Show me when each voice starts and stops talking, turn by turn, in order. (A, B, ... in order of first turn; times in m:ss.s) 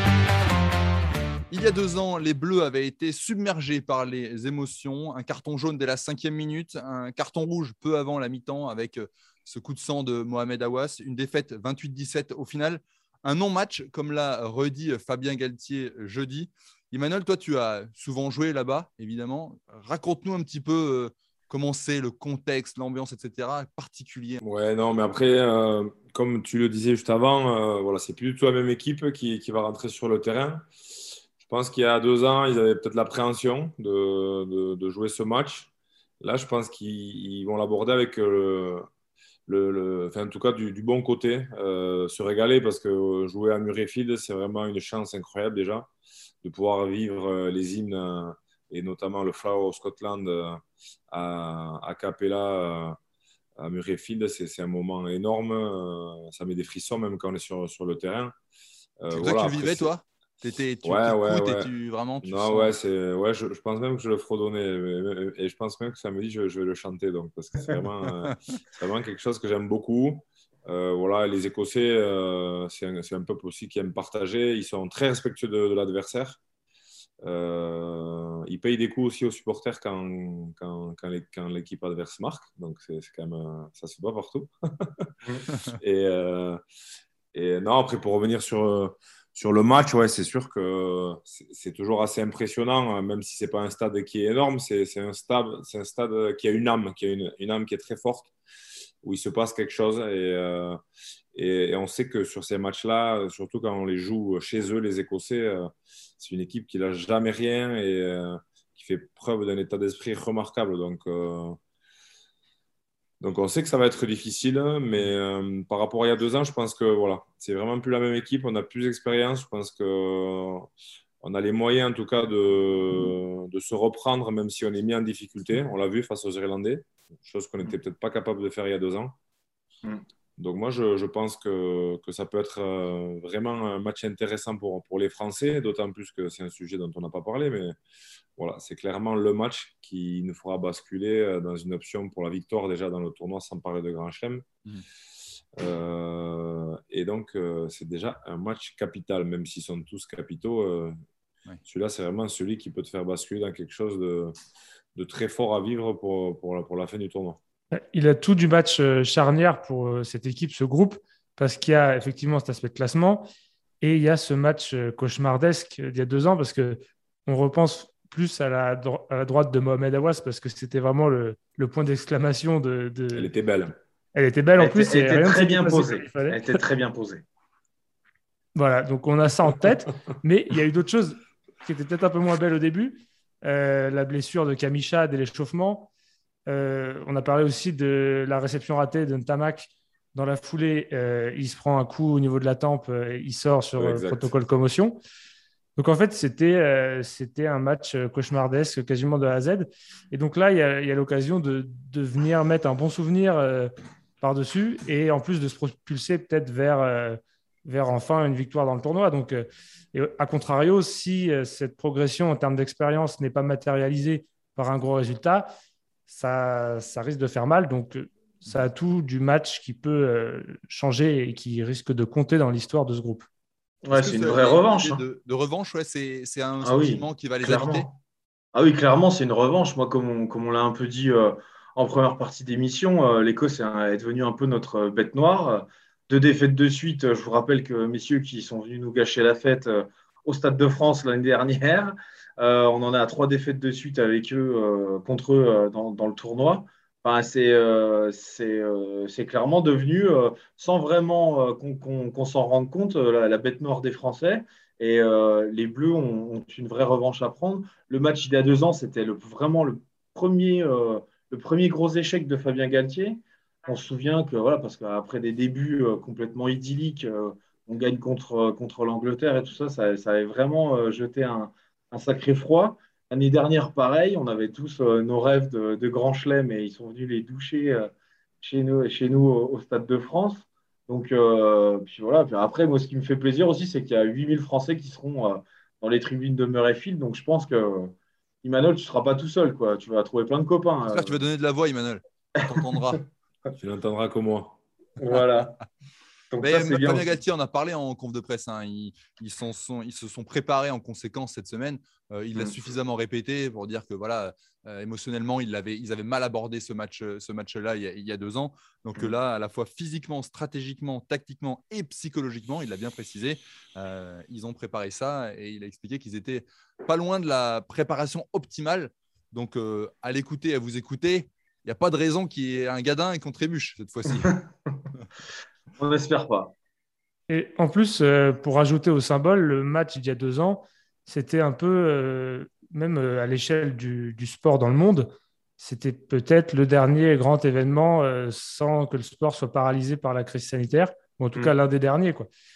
0:01.5-0:24.4 A
0:24.4-0:30.6 B
0:31.4-0:38.9 B
0:39.5-0:45.9 B
0:46.4-0:53.0 B
0:53.6-0:58.3 B
0:59.0-0:59.9 B
0:59.1-1:02.8 A
1:00.8-1:01.7 B
1:02.2-1:16.4 B
1:17.2-1:25.1 B
1:25.6-1:26.6 B
1:27.3-1:38.3 B
1:39.0-1:40.8 B
1:41.3-1:51.6 B
1:53.2-2:00.7 B
2:01.2-2:09.1 B
2:10.4-2:17.8 B
2:18.4-2:24.5 B
2:25.6-2:30.9 B
2:31.6-2:34.3 B
2:34.9-2:37.4 B
2:37.7-2:43.3 C
2:43.8-2:53.3 C
2:53.1-2:53.7 B
2:54.1-2:56.6 C
2:54.6-2:57.2 D
2:58.5-3:05.9 C
3:06.5-3:15.0 C
3:13.8-3:14.3 B
3:15.8-3:35.5 C
3:36.1-3:43.2 C
3:43.8-3:45.0 D
3:43.9-3:47.9 A
3:46.6-3:48.0 D
3:48.5-4:51.2 D
4:50.9-4:53.0 A
4:52.4-4:53.0 D
4:53.6-4:54.6 B
4:55.0-4:55.6 D
4:56.3-4:57.1 D
4:56.4-5:24.4 A
5:24.1-5:24.8 D
5:25.8-5:26.5 D
5:27.3-5:42.3 C